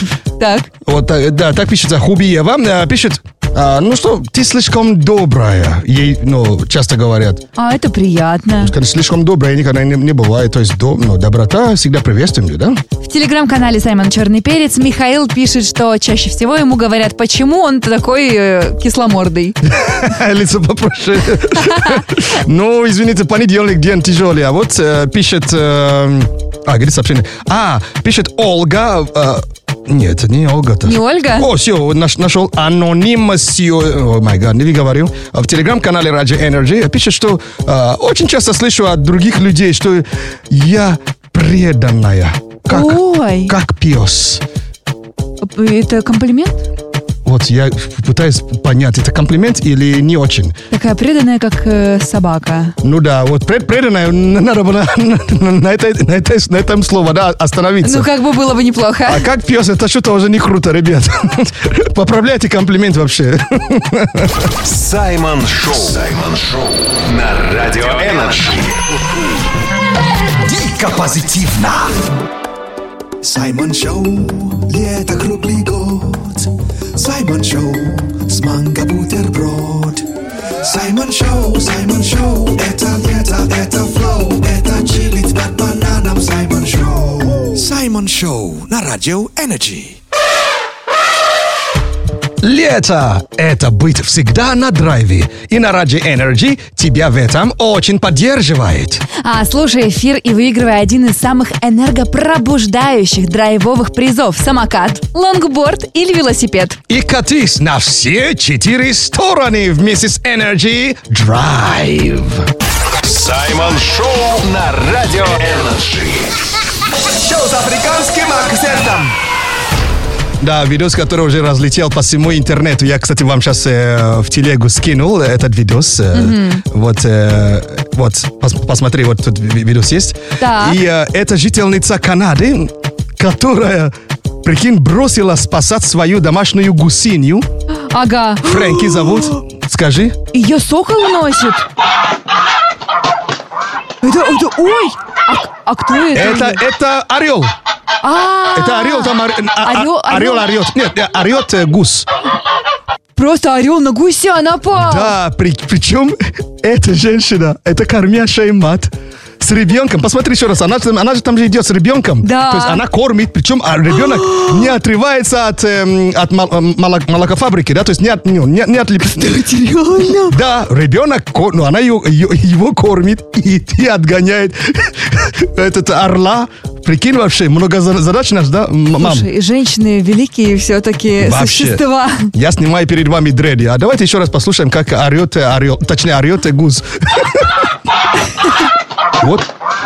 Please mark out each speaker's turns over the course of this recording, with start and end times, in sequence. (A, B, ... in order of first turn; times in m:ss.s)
0:00.4-0:00.7 A
0:00.8-0:07.4 B
0:07.6-0:08.7 A
0:08.6-0:12.8 B
0:13.0-0:19.6 A
0:19.7-0:44.4 B
0:21.6-0:22.0 A
0:30.8-0:31.5 A
0:42.7-0:43.5 A
0:45.4-0:46.6 A
0:47.2-0:50.6 B
0:50.7-0:52.8 A
0:52.8-0:58.1 B
0:57.8-0:59.2 A
0:59.0-1:04.5 B
1:04.6-1:08.8 C
1:10.4-1:12.0 D
1:13.2-1:20.0 D
1:20.6-1:30.0 D
1:32.4-1:39.0 B
1:39.2-1:46.8 A
1:46.9-1:52.5 B
1:53.0-1:56.4 C
1:57.2-1:59.1 E
2:00.4-2:17.5 B
2:06.1-2:06.6 A
2:10.4-2:10.8 A
2:17.9-2:19.3 A
2:18.4-2:20.2 B
2:20.3-2:21.7 A
2:24.0-2:26.6 A
2:26.1-2:27.5 B
2:28.0-2:30.5 A
2:28.5-2:32.1 B
2:33.2-2:35.1 A
2:34.7-2:49.4 B
2:42.2-2:42.8 A
2:44.1-2:44.7 A
2:49.1-2:50.4 A
2:50.3-2:59.3 B
2:59.0-3:02.3 A
3:01.2-3:01.8 B
3:02.3-3:07.5 B
3:09.2-3:09.5 B